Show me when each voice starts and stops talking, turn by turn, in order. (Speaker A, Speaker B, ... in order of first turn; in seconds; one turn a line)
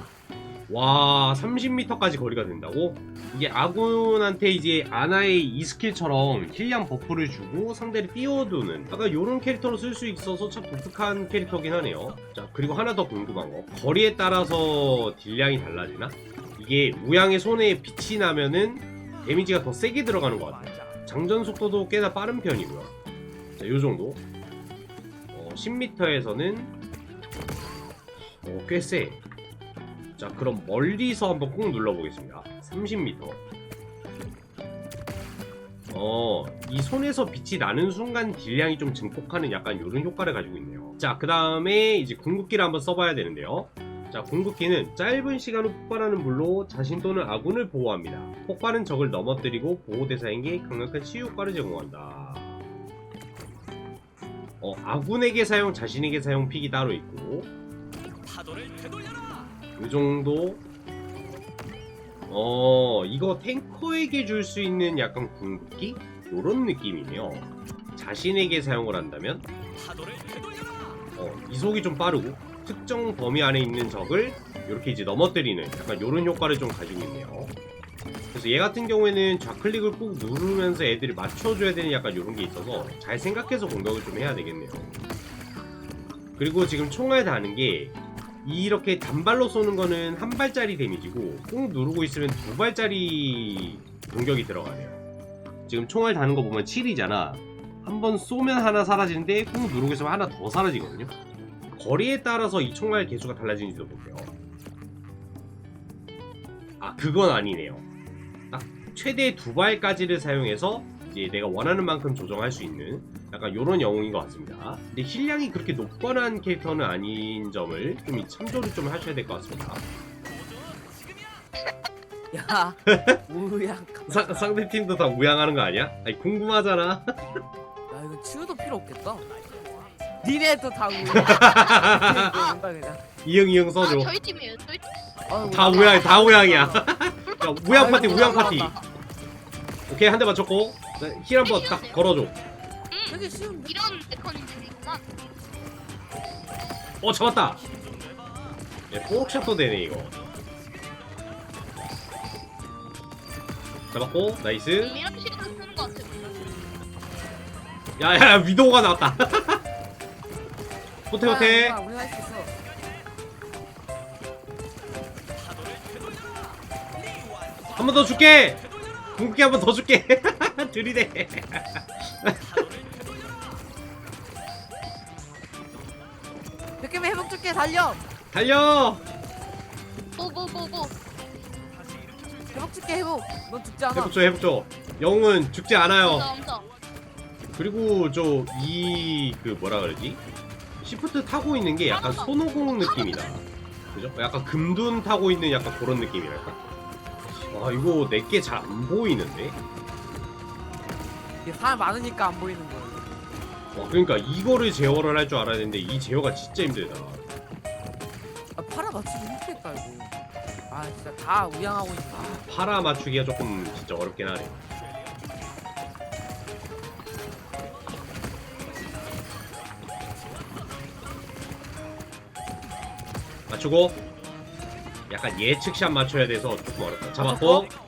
Speaker A: 0.7-22.9
Speaker A: 23.6-24.2
Speaker A: 25.3-26.7
Speaker A: 28.4-29.2
Speaker A: 30.2-33.4
Speaker A: 35.9-52.6
Speaker A: 54.6-57.5
Speaker A: 59.8-60.6
Speaker A: 62.3-69.5
Speaker A: 71.2-77.5
Speaker A: 78.3-84.9
Speaker A: 86.4-95.0
Speaker A: 95.7-101.1
Speaker A: 101.8-104.3
Speaker A: 106.8-107.8
Speaker A: 108.5-119.8
Speaker B: 122.3-124.5
Speaker A: 122.9-123.2
Speaker A: 124.1-127.4
Speaker B: 127.9-129.3
Speaker B: 130.2-133.0
Speaker A: 131.0-132.5
Speaker A: 133.2-134.1
Speaker C: 133.8-134.9
Speaker B: 135.3-136.9
Speaker A: 135.5-138.7
Speaker C: 135.8-136.2
Speaker C: 137.2-138.8
Speaker B: 137.7-138.7
Speaker A: 139.9-142.4
Speaker C: 141.4-142.0
Speaker C: 142.9-145.0
Speaker B: 143.1-143.7
Speaker A: 147.0-147.6
Speaker A: 148.9-150.2
Speaker A: 153.9-155.0
Speaker C: 154.8-156.4
Speaker A: 158.0-159.6
Speaker A: 161.1-161.8
Speaker B: 161.2-162.5
Speaker A: 167.7-168.6
Speaker A: 169.2-172.4
Speaker B: 176.8-178.0
Speaker A: 178.3-179.0
Speaker C: 180.2-180.9
Speaker B: 182.5-184.2
Speaker A: 183.9-186.3
Speaker C: 185.9-186.7
Speaker A: 187.5-190.2
Speaker A: 190.8-196.6
Speaker C: 191.8-193.3
Speaker A: 197.3-199.6
Speaker B: 201.4-203.2
Speaker A: 203.7-207.2
Speaker B: 208.6-210.1
Speaker B: 210.7-212.4
Speaker A: 212.1-214.7
Speaker A: 223.5-224.0
Speaker A: 225.1-227.7
Speaker B: 227.2-227.7